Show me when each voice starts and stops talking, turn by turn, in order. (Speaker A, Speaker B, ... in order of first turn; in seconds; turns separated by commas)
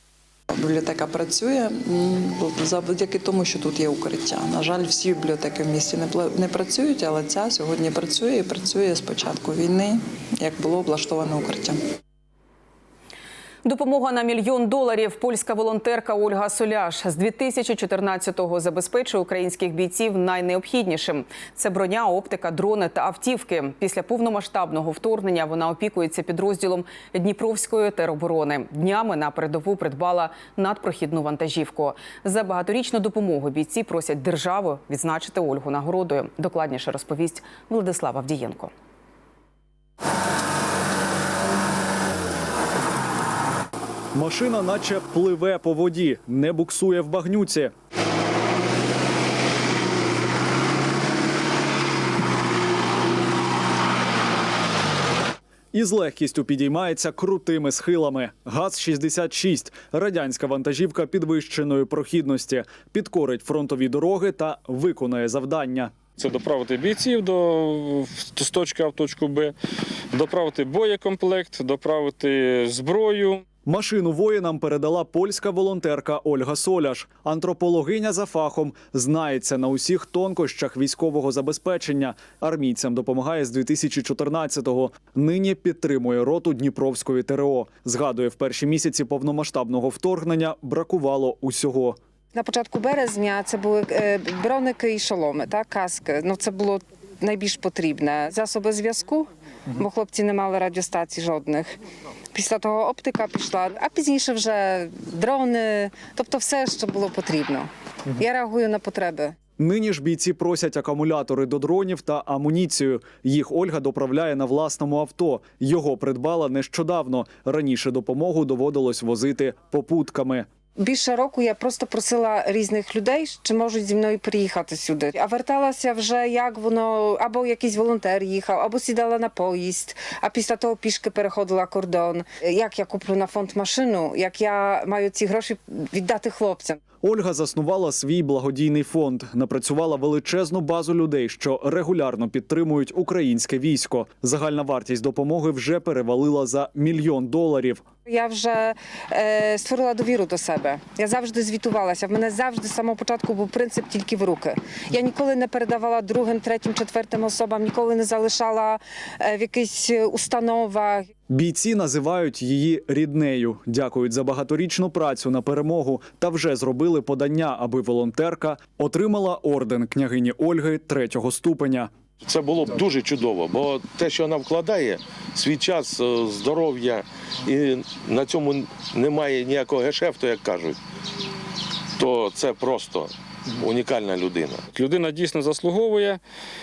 Speaker A: 0.6-11.8, Speaker B: 13.6-38.7, Speaker C: 44.1-47.7, Speaker C: 55.7-65.9, Speaker D: 66.2-69.5, Speaker D: 70.1-73.4, Speaker C: 73.7-92.0, Speaker E: 92.3-101.7, Speaker E: 102.3-109.3, Speaker C: 109.6-120.5, Speaker E: 120.8-136.8, Speaker C: 137.0-147.8, Speaker E: 148.1-161.1, Speaker C: 161.3-171.9, Speaker F: 172.2-180.8, Speaker F: 182.0-184.7, Speaker D: 184.7-186.2